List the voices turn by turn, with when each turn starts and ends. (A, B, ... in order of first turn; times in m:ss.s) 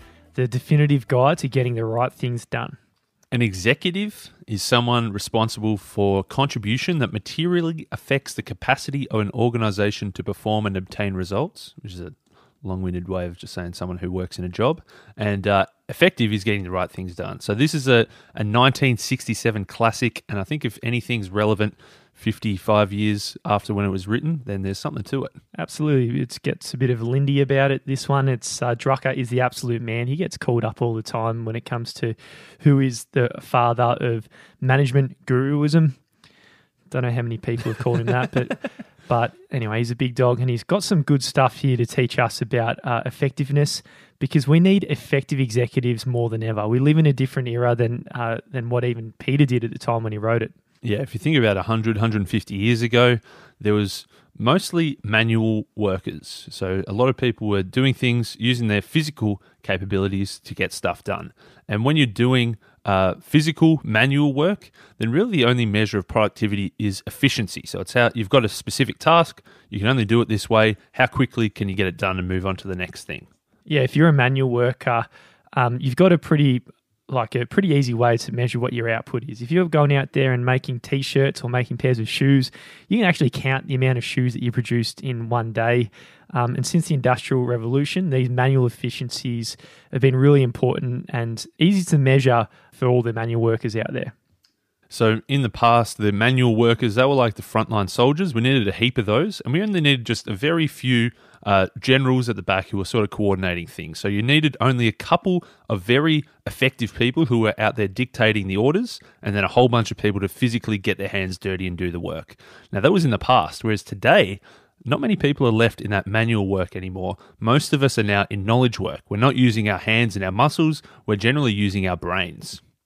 0:00.3-0:02.8 A
0:03.3-0:25.4 B
0:25.5-0:36.0 A
0:36.9-0:50.5 A
0:50.8-1:13.3 B
1:13.7-1:34.1 A
1:34.9-2:02.6 B